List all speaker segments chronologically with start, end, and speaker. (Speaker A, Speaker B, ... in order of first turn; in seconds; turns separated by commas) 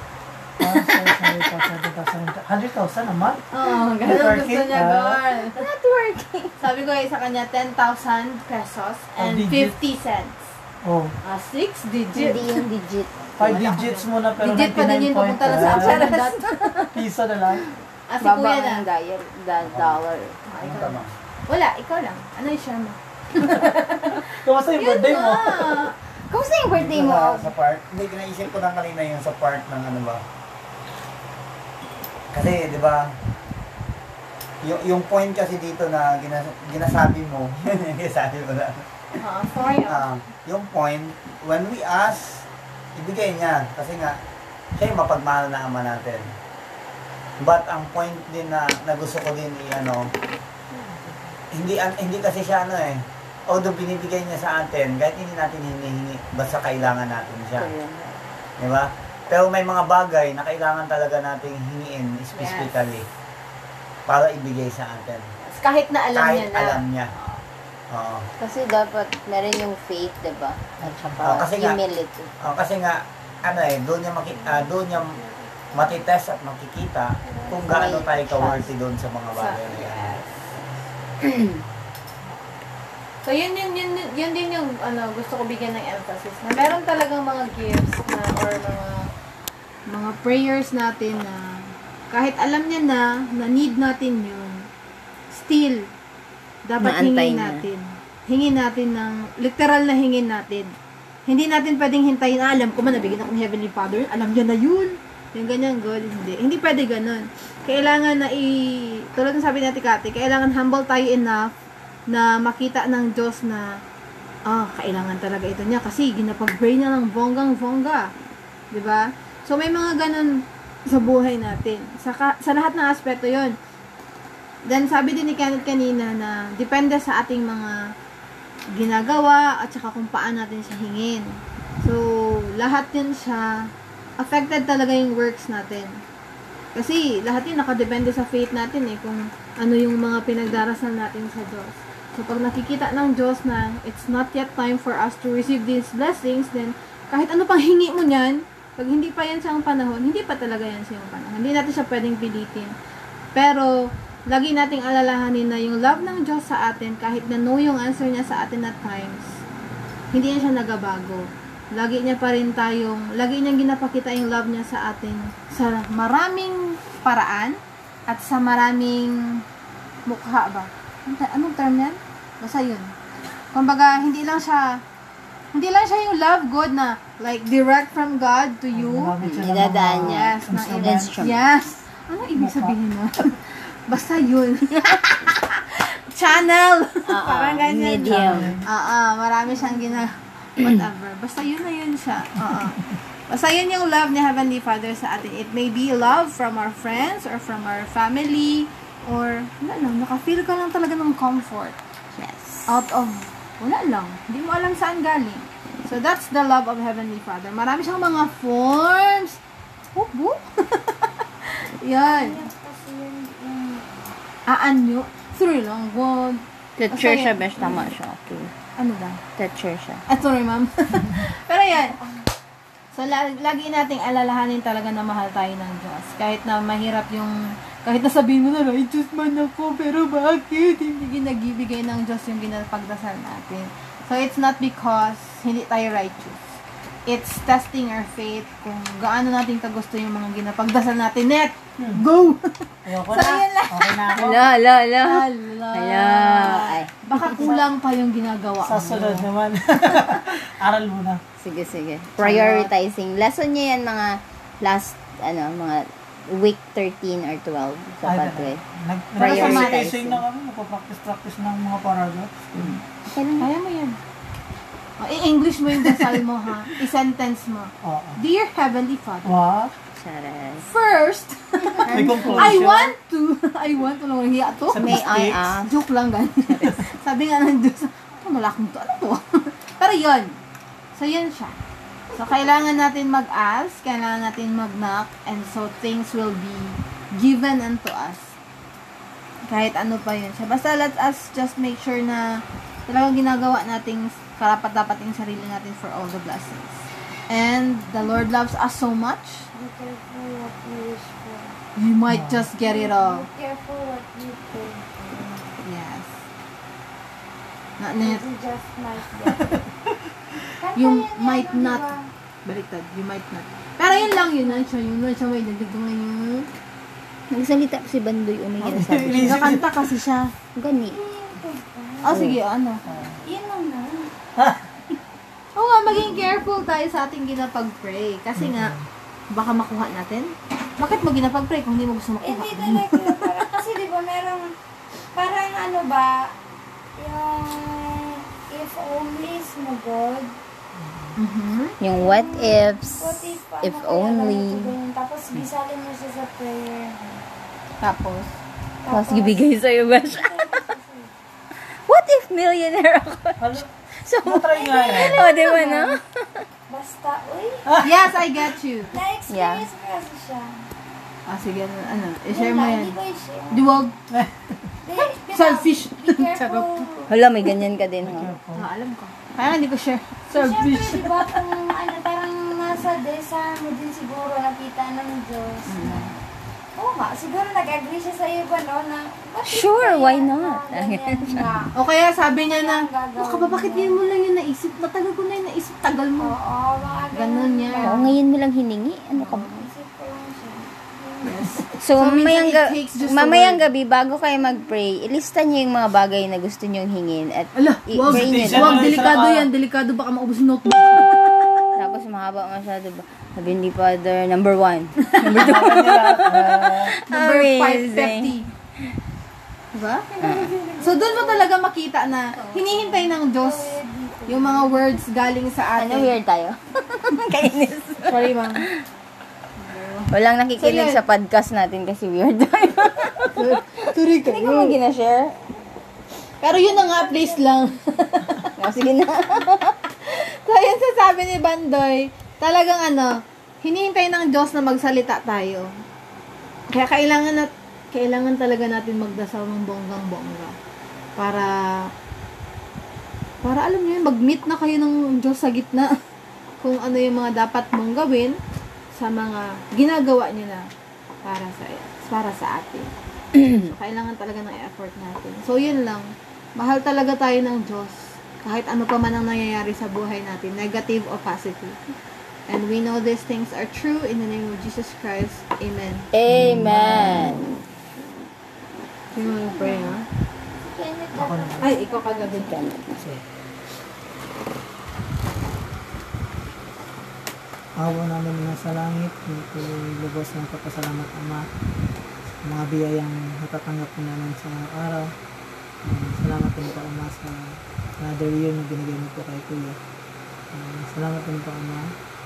Speaker A: 0.6-5.2, Speaker B: 3.5-5.6, Speaker C: 5.4-6.5, Speaker B: 6.6-10.6, Speaker A: 9.2-9.8, Speaker A: 10.8-11.2, Speaker B: 11.2-12.5, Speaker C: 12.1-13.3, Speaker A: 13.4-16.1, Speaker B: 13.4-16.9, Speaker C: 15.5-16.8, Speaker A: 16.9-17.6, Speaker B: 18.1-18.9, Speaker C: 18.2-20.4, Speaker D: 19.6-20.0, Speaker B: 20.4-25.9, Speaker D: 20.6-21.1, Speaker A: 24.3-25.8, Speaker C: 26.1-27.6, Speaker D: 26.7-30.2, Speaker D: 32.3-33.1, Speaker D: 34.6-38.9, Speaker B: 39.1-40.1, Speaker D: 39.9-44.2, Speaker D: 44.8-46.3, Speaker D: 47.4-50.1, Speaker A: 50.7-51.4, Speaker D: 51.5-57.7, Speaker C: 57.5-58.2, Speaker D: 58.6-63.1, Speaker B: 62.3-62.8, Speaker D: 64.1-65.3, Speaker B: 65.4-67.4, Speaker D: 66.1-67.1, Speaker D: 67.9-68.3, Speaker C: 68.4-72.3, Speaker A: 70.8-71.2, Speaker D: 71.2-71.8, Speaker D: 72.4-75.2, Speaker D: 75.7-80.2, Speaker C: 77.6-78.7, Speaker B: 79.3-80.5, Speaker C: 81.2-81.6, Speaker B: 83.2-89.1, Speaker B: 89.9-91.6, Speaker B: 92.1-94.7, Speaker B: 95.3-95.9, Speaker B: 96.7-100.7, Speaker C: 96.8-97.7, Speaker B: 101.3-111.5, Speaker B: 112.1-113.7, Speaker B: 114.5-118.1, Speaker B: 118.7-123.6, Speaker B: 124.7-127.8, Speaker B: 128.7-131.3, Speaker B: 131.8-133.7, Speaker B: 134.2-136.0, Speaker B: 136.8-152.7, Speaker B: 153.3-153.7, Speaker B: 154.3-159.4, Speaker B: 160.1-169.4, Speaker B: 170.1-172.9, Speaker B: 173.5-174.8, Speaker B: 175.5-179.1, Speaker A: 178.7-181.4, Speaker C: 179.2-181.4, Speaker B: 180.0-201.8, Speaker A: 182.4-182.8, Speaker C: 187.1-188.6, Speaker A: 188.1-188.7, Speaker C: 202.1-202.7, Speaker B: 202.7-209.4, Speaker B: 209.9-212.4, Speaker E: 212.0-214.1, Speaker B: 214.5-217.9, Speaker C: 216.8-218.5, Speaker B: 218.8-219.2, Speaker C: 219.4-220.0, Speaker B: 220.1-222.0, Speaker E: 221.9-222.3, Speaker B: 222.9-236.4, Speaker B: 237.1-244.0, Speaker A: 241.8-242.0, Speaker A: 242.9-244.5, Speaker C: 244.2-247.4, Speaker B: 245.0-249.3, Speaker A: 247.2-247.7, Speaker A: 248.6-251.2, Speaker C: 251.4-258.6, Speaker B: 252.2-252.7, Speaker A: 258.0-262.8, Speaker B: 259.2-259.8, Speaker C: 259.2-260.2, Speaker C: 262.6-263.5, Speaker B: 263.4-264.0, Speaker B: 265.0-269.3, Speaker A: 265.7-266.2, Speaker A: 267.8-268.2, Speaker A: 269.2-269.7, Speaker C: 269.9-270.7, Speaker B: 270.7-274.8, Speaker A: 271.9-272.9, Speaker A: 274.7-275.5, Speaker C: 274.7-275.8, Speaker B: 275.7-280.4, Speaker C: 276.4-276.8, Speaker B: 280.9-281.6, Speaker B: 282.1-288.4, Speaker B: 289.5-292.2, Speaker B: 292.9-299.5, Speaker E: 298.0-298.3, Speaker E: 299.5-301.6, Speaker B: 301.8-303.3, Speaker A: 302.1-302.4, Speaker E: 302.6-305.6, Speaker B: 305.6-306.2, Speaker B: 307.8-308.2, Speaker E: 308.0-309.6, Speaker E: 310.6-312.1, Speaker B: 310.8-311.9, Speaker B: 312.4-316.5, Speaker E: 313.9-314.7, Speaker C: 317.3-319.6, Speaker A: 318.6-319.8, Speaker B: 319.1-320.3, Speaker C: 320.6-321.0, Speaker E: 320.9-322.2, Speaker B: 322.0-322.8, Speaker C: 322.1-322.4, Speaker A: 322.9-323.2, Speaker E: 323.2-324.1, Speaker A: 324.4-324.6, Speaker B: 325.6-328.8, Speaker A: 328.4-328.9, Speaker B: 329.3-332.8, Speaker E: 332.2-334.5, Speaker E: 335.1-336.3, Speaker E: 337.0-340.3, Speaker A: 340.8-341.2, Speaker B: 341.2-341.8, Speaker C: 341.8-344.7, Speaker E: 341.9-347.2, Speaker B: 347.8-348.4, Speaker E: 348.8-349.5, Speaker C: 348.9-350.6, Speaker E: 350.1-351.1, Speaker C: 351.6-356.4, Speaker A: 353.4-353.7, Speaker A: 354.2-355.3, Speaker E: 354.5-356.0, Speaker E: 356.7-357.8, Speaker B: 357.8-359.0, Speaker E: 358.9-360.7, Speaker C: 359.3-359.7, Speaker B: 361.3-362.9, Speaker E: 362.3-363.7, Speaker B: 363.5-364.0, Speaker A: 364.1-364.7, Speaker E: 364.8-367.1, Speaker B: 365.0-366.9, Speaker C: 367.1-368.3, Speaker A: 368.0-368.7, Speaker B: 368.6-371.4, Speaker E: 370.3-376.2, Speaker B: 375.7-376.1, Speaker E: 376.8-381.7, Speaker C: 379.4-381.5, Speaker B: 381.8-386.3, Speaker E: 382.4-384.0, Speaker E: 386.2-388.1, Speaker B: 387.1-388.1, Speaker C: 387.8-389.7, Speaker E: 389.2-391.6, Speaker B: 391.2-393.6, Speaker C: 391.8-399.0, Speaker B: 397.6-401.7, Speaker A: 398.1-399.5, Speaker C: 401.8-408.3, Speaker A: 405.3-407.0, Speaker B: 407.1-408.5, Speaker B: 409.8-410.1, Speaker E: 410.2-411.5, Speaker C: 410.2-410.5, Speaker B: 410.8-416.1, Speaker E: 412.3-415.0, Speaker C: 415.8-418.3, Speaker B: 418.1-418.6, Speaker B: 419.6-421.0, Speaker C: 420.1-425.4, Speaker B: 423.3-424.8, Speaker B: 426.4-428.4, Speaker E: 426.4-428.0, Speaker C: 428.6-429.8, Speaker B: 430.0-433.1, Speaker B: 433.6-435.7, Speaker B: 436.7-440.6, Speaker B: 441.2-441.5, Speaker B: 443.4-445.9, Speaker B: 446.6-448.4, Speaker B: 448.9-450.7, Speaker B: 451.2-461.8, Speaker B: 462.5-466.1, Speaker C: 466.1-467.6, Speaker A: 466.3-467.4, Speaker B: 469.1-470.1, Speaker E: 469.1-470.0, Speaker E: 470.5-472.5, Speaker A: 471.1-471.7, Speaker B: 471.6-472.6, Speaker C: 472.4-473.0, Speaker A: 473.0-473.2, Speaker A: 477.8-481.4, Speaker A: 482.4-485.1, Speaker A: 485.9-487.5, Speaker A: 488.0-489.8, Speaker A: 490.5-491.8